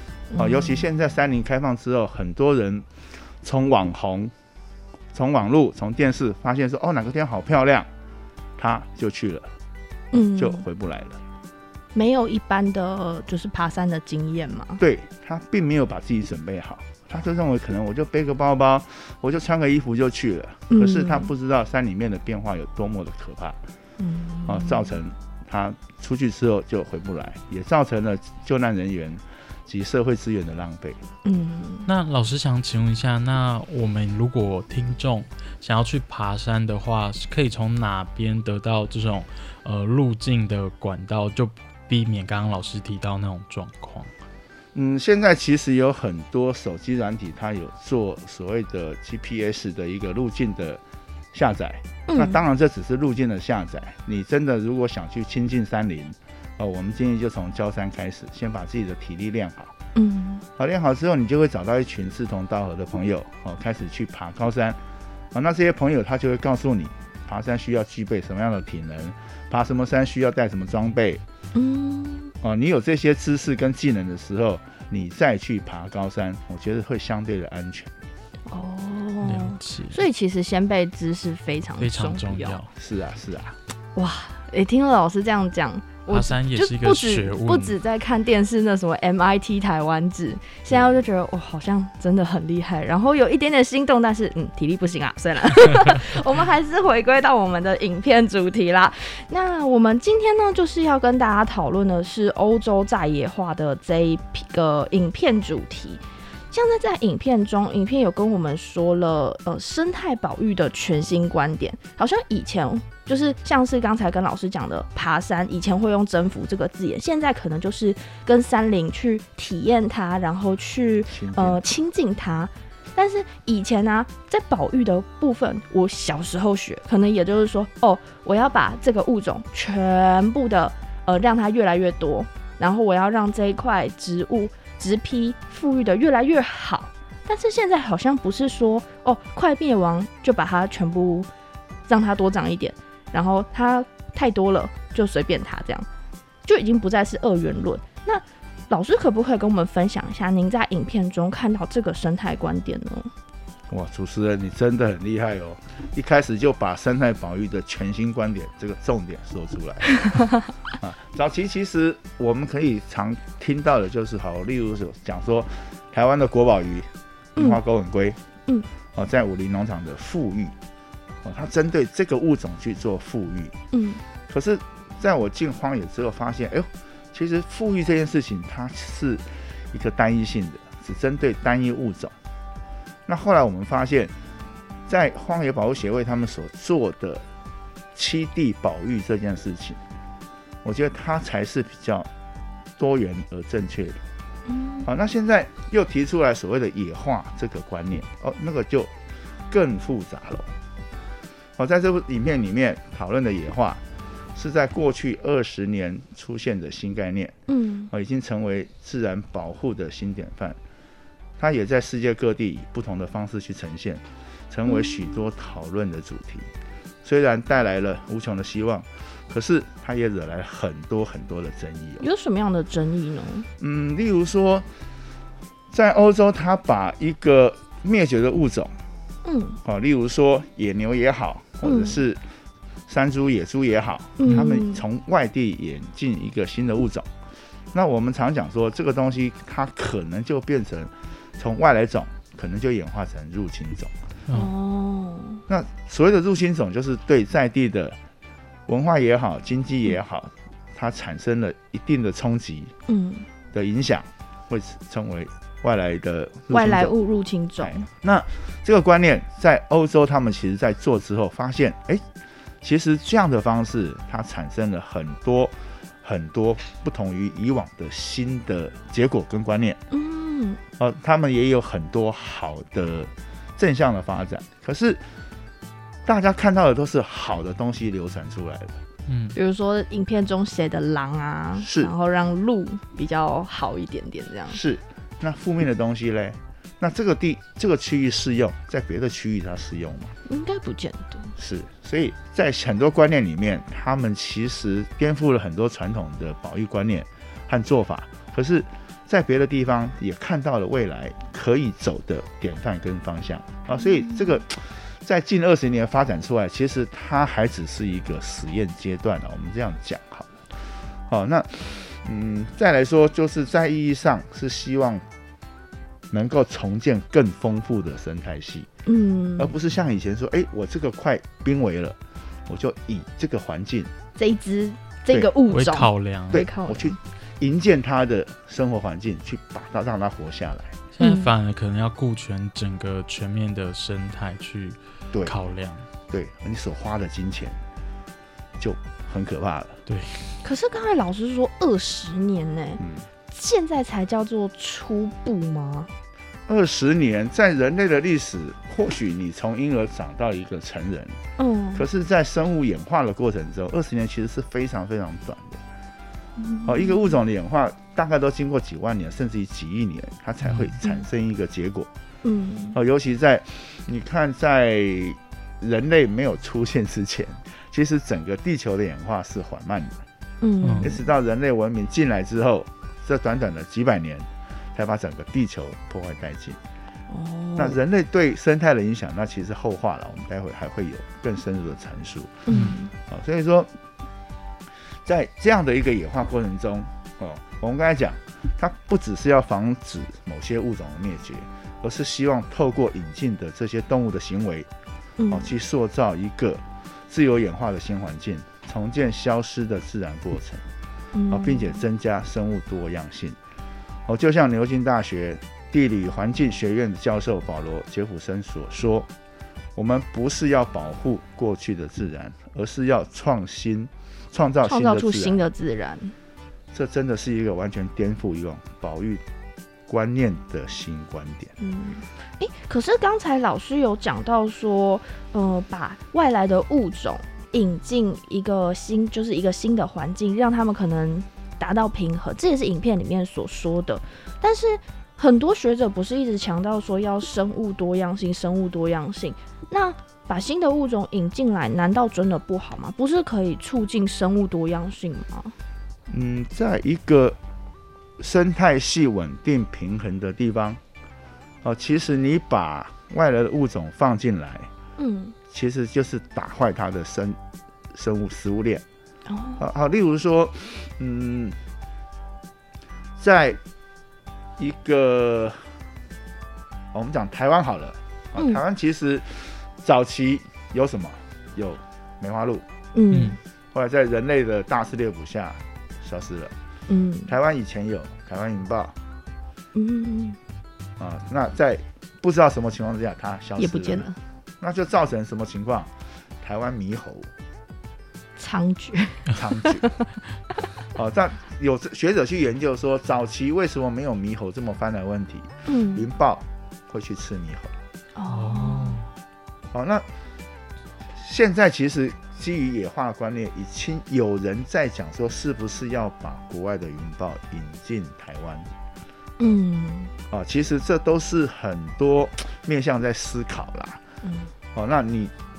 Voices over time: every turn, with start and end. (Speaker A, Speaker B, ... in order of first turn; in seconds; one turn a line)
Speaker A: 0.3-0.8
Speaker B: 0.3-4.3
Speaker B: 5.1-7.9
Speaker B: 8.6-9.5
Speaker A: 10.1-10.7
Speaker B: 10.4-11.2
Speaker A: 11.9-14.8
Speaker B: 14.8-23.6
Speaker A: 20.7-21.3
Speaker A: 24.0-24.9
Speaker B: 24.5-31.0
Speaker A: 31.2-31.9
Speaker C: 31.9-44.1
Speaker B: 44.7-50.8
Speaker B: 51.3-59.7
Speaker A: 52.1-52.4
Speaker A: 60.0-60.5
Speaker B: 60.6-64.8
Speaker B: 65.3-71.2
Speaker A: 71.5-72.3
Speaker B: 72.4-77.9
Speaker A: 78.5-82.6
Speaker C: 79.2-80.0
Speaker C: 81.8-82.7
Speaker B: 82.8-83.6
Speaker A: 84.0-141.3
Speaker C: 86.1-87.7
Speaker B: 121.1-121.6
Speaker A: 141.9-145.9
Speaker A: 146.4-153.1
Speaker B: 153.7-168.2
Speaker B: 168.9-170.5
Speaker B: 171.2-173.6
Speaker A: 173.7-174.0
Speaker B: 174.3-182.2
Speaker B: 183.1-184.1
Speaker B: 184.9-187.2
Speaker B: 187.9-189.8
Speaker B: 190.6-192.1
Speaker B: 192.8-194.0
Speaker A: 194.5-194.9
Speaker B: 194.9-198.9
Speaker B: 199.5-200.5
Speaker B: 201.6-203.8
Speaker B: 204.3-207.4
Speaker A: 207.5-207.9
Speaker B: 207.9-210.6
Speaker B: 211.4-216.5
Speaker A: 214.7-214.9
Speaker B: 217.0-222.1
Speaker A: 222.0-223.5
Speaker B: 223.6-224.7
Speaker B: 225.7-228.7
Speaker A: 229.2-229.6
Speaker B: 229.6-232.3
Speaker A: 231.6-232.0
Speaker B: 232.9-237.1
Speaker A: 234.2-234.8
Speaker B: 237.7-243.9
Speaker A: 244.3-245.4
Speaker B: 245.5-248.0
Speaker B: 248.7-252.7
Speaker A: 252.9-253.3
Speaker B: 253.5-256.9
Speaker A: 256.5-257.9
Speaker B: 257.6-262.1
Speaker B: 262.6-269.8
Speaker A: 269.9-270.6
Speaker B: 270.8-275.2
Speaker B: 276.1-278.8
Speaker C: 279.1-279.4
Speaker A: 279.3-284.6
Speaker B: 281.6-281.9
Speaker B: 284.5-290.1
Speaker A: 290.3-291.4
Speaker B: 291.4-315.1
Speaker A: 303.7-304.4
Speaker B: 316.1-318.7
Speaker A: 318.9-319.5
Speaker B: 319.4-323.9
Speaker A: 324.2-327.0
Speaker C: 325.5-326.4
Speaker B: 326.3-330.8
Speaker C: 330.9-335.9
Speaker A: 331.0-331.3
Speaker B: 336.1-337.6
Speaker B: 338.6-339.8
Speaker C: 339.9-340.4
Speaker A: 340.4-345.9
Speaker B: 342.8-343.1
Speaker B: 346.5-351.2
Speaker A: 351.4-351.9
Speaker B: 351.8-355.6
Speaker A: 356.4-357.2
Speaker B: 356.6-361.9
Speaker C: 360.4-360.7
Speaker A: 362.2-362.8
Speaker B: 362.7-370.0
Speaker A: 370.4-371.0
Speaker C: 370.6-370.9
Speaker B: 370.8-376.6
Speaker A: 377.1-377.8
Speaker B: 377.6-382.5
Speaker A: 382.5-382.9
Speaker B: 383.0-383.7
Speaker B: 384.8-394.7
Speaker A: 395.2-395.5
Speaker B: 395.3-400.7
Speaker A: 401.1-401.8
Speaker B: 401.3-403.4
Speaker B: 404.1-409.1
Speaker B: 409.8-415.4
Speaker A: 414.6-416.1
Speaker B: 416.7-419.2
Speaker B: 419.9-421.5
Speaker A: 421.6-445.6
Speaker B: 446.1-447.4
Speaker B: 448.2-450.8
Speaker B: 451.6-454.7
Speaker A: 455.0-455.4
Speaker B: 455.5-457.4
Speaker B: 457.9-458.8
Speaker A: 459.3-459.6
Speaker B: 459.6-461.6
Speaker B: 463.2-463.6
Speaker B: 464.6-465.8
Speaker B: 466.9-472.6
Speaker A: 468.4-468.6
Speaker A: 472.9-473.4
Speaker C: 473.1-473.4
Speaker B: 473.7-476.5
Speaker A: 476.9-477.3
Speaker B: 477.3-479.0
Speaker A: 479.7-480.4
Speaker B: 481.0-487.3
Speaker A: 483.6-484.2
Speaker A: 488.4-489.9
Speaker B: 489.3-489.9
Speaker B: 490.9-497.7
Speaker A: 495.7-496.1
Speaker A: 498.1-499.0
Speaker C: 498.3-499.1
Speaker B: 499.7-500.1
Speaker B: 501.1-508.7
Speaker A: 509.4-510.1
Speaker B: 510.3-514.0
Speaker A: 514.2-514.5
Speaker B: 514.7-515.3